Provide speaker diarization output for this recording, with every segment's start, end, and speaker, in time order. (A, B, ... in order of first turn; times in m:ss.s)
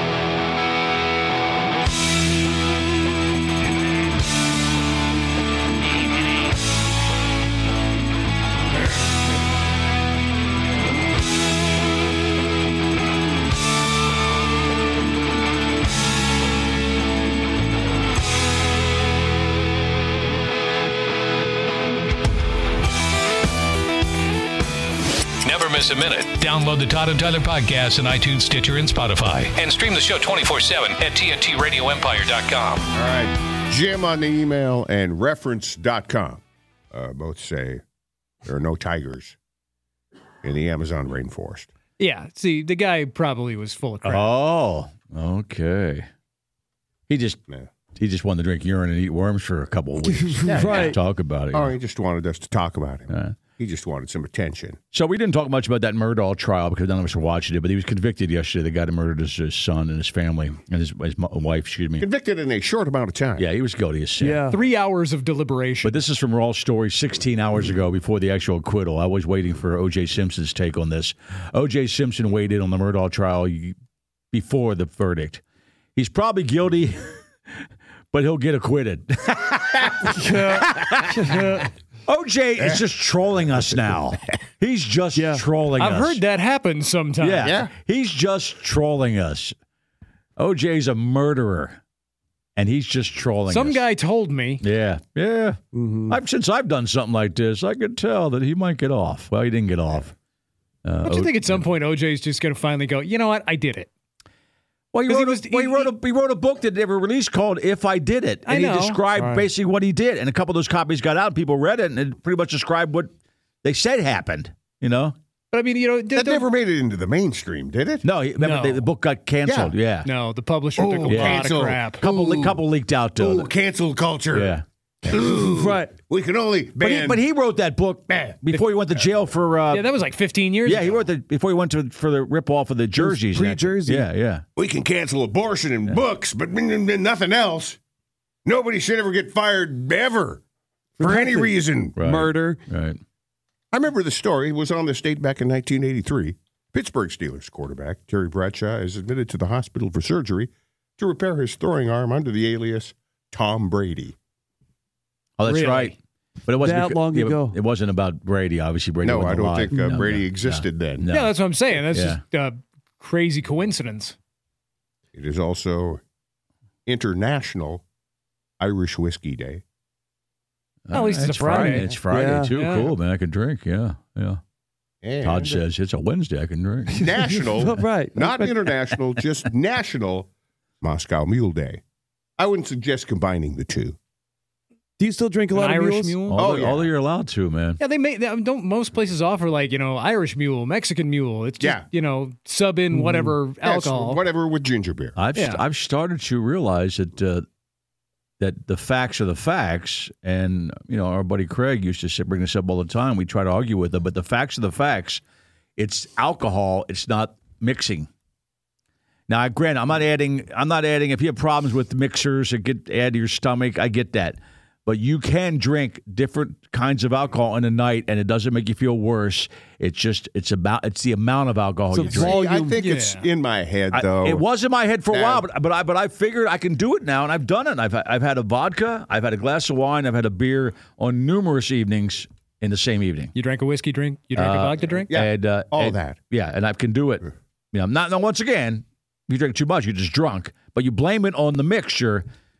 0:25.4-0:32.8 A
0:32.9-0:37.8 B
0:38.4-0:39.4 B
0:40.4-0:41.7 B
0:42.0-0:44.3 C
0:44.0-0:46.1 D
0:47.1-0:47.4 D
0:48.0-0:51.7 D
0:50.0-0:51.0 E
0:50.4-0:51.0 B
0:51.5-0:54.8 B
0:53.1-0:53.4 D
0:54.9-1:02.1 D
1:02.0-1:03.4 B
1:03.4-1:04.4 D
1:04.2-1:04.6 E
1:04.5-1:06.0 C
1:05.8-1:13.8 D
1:14.3-1:15.4 D
1:16.0-1:17.1 D
1:18.1-1:21.2 D
1:20.0-1:21.7 E
1:22.1-1:26.2 D
1:22.6-1:22.8 B
1:25.1-1:25.4 E
1:25.8-1:27.6 C
1:27.2-1:29.5 D
1:27.4-1:27.7 B
1:30.4-1:31.8 D
1:32.6-1:33.8 D
1:33.5-1:34.6 C
1:34.6-1:40.1 D
1:35.7-1:36.2 E
1:40.8-1:41.7 D
1:41.0-1:43.9 C
1:44.9-1:53.1 D
1:45.1-1:45.9 C
1:48.4-1:49.4 C
1:53.6-1:55.1 D
1:55.5-1:56.5 C
1:56.1-1:58.0 B
1:58.0-2:00.1 D
1:58.4-1:58.9 C
1:59.4-1:59.7 B
2:00.0-2:02.0 C
2:00.8-2:02.6 B
2:01.1-2:03.5 D
2:03.2-2:07.2 B
2:04.3-2:04.6 D
2:05.1-2:05.9 E
2:06.8-2:09.9 D
2:08.1-2:08.6 B
2:09.7-2:11.0 C
2:10.6-2:14.4 D
2:13.0-2:14.1 E
2:14.6-2:17.8 B
2:18.4-2:20.4 B
2:21.0-2:22.0 B
2:21.0-2:22.6 E
2:22.0-2:23.0 D
2:23.7-2:34.1 B
2:35.4-2:41.4 D
2:35.4-2:35.9 C
2:36.5-2:37.6 E
2:39.0-2:41.0 B
2:41.1-2:44.2 C
2:41.9-2:42.2 D
2:45.1-2:46.0 B
2:46.9-2:47.8 B
2:48.6-2:49.6 B
2:50.9-2:54.4 D
2:50.9-2:51.9 C
2:52.1-2:52.5 E
2:52.6-2:52.9 C
2:55.0-2:55.6 B
2:55.2-2:57.1 D
2:56.9-2:58.5 E
2:57.0-3:00.3 B
3:00.8-3:01.8 B
3:02.4-3:04.0 B
3:05.0-3:06.2 E
3:05.5-3:06.5 C
3:06.3-3:07.8 D
3:06.4-3:06.9 B
3:07.8-3:14.2 C
3:11.6-3:11.9 B
3:12.9-3:13.4 E
3:13.6-3:15.2 B
3:15.2-3:17.4 D
3:15.4-3:15.6 C
3:18.4-3:25.2 D
3:25.8-3:28.1 D
3:29.3-3:42.4 D
3:41.9-3:42.8 E
3:42.1-3:44.4 B
3:42.8-3:43.3 C
3:43.9-3:53.3 D
3:45.1-3:45.4 B
3:53.3-3:55.1 C
3:54.4-4:02.2 D
3:55.1-3:56.2 B